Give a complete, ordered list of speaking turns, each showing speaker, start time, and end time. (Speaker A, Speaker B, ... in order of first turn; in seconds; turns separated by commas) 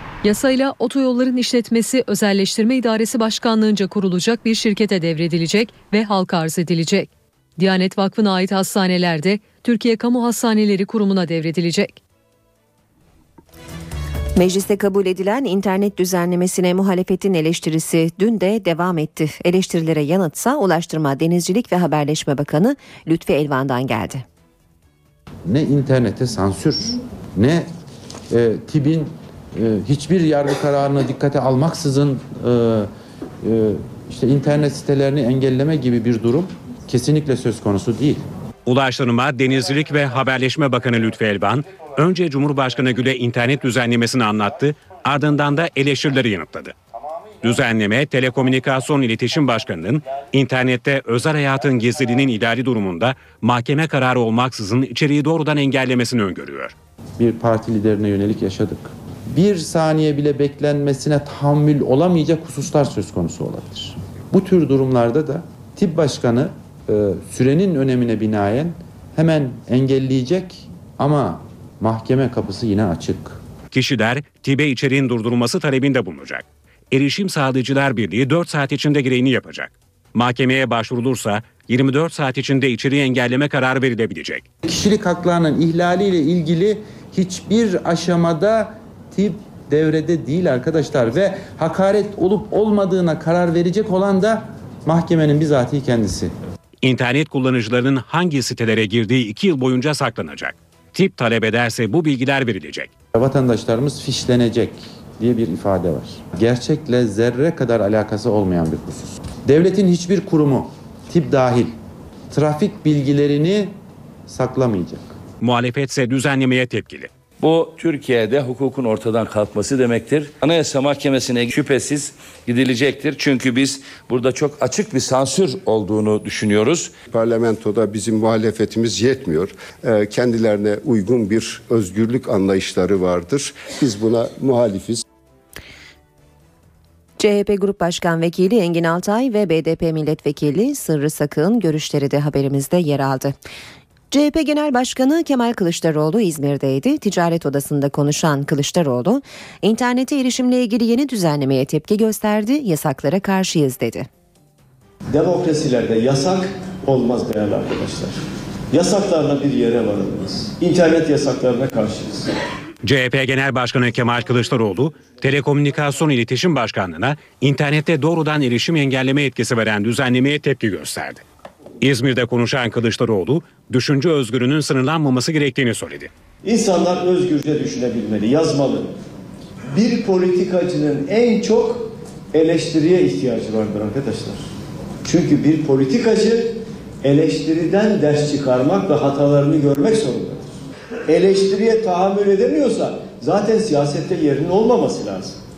Speaker A: 0.2-12.0, Speaker B: 14.4-24.2, Speaker C: 25.5-27.7, Speaker C: 28.3-32.9, Speaker C: 33.4-38.2, Speaker D: 38.7-46.7, Speaker D: 47.4-56.7, Speaker C: 57.2-73.4, Speaker D: 73.7-84.5, Speaker C: 84.7-96.3, Speaker D: 96.8-102.9, Speaker C: 103.1-111.8, Speaker C: 112.3-113.8, Speaker C: 114.3-115.1, Speaker D: 115.4-117.1, Speaker E: 117.4-126.9, Speaker F: 127.1-135.0, Speaker B: 137.2-143.4, Speaker B: 144.1-154.1, Speaker G: 155.1-158.2, Speaker G: 158.7-162.3, Speaker D: 162.8-171.2, Speaker D: 171.8-176.1, Speaker G: 176.4-178.9, Speaker G: 179.7-184.4, Speaker G: 185.0-190.5, Speaker G: 191.1-195.4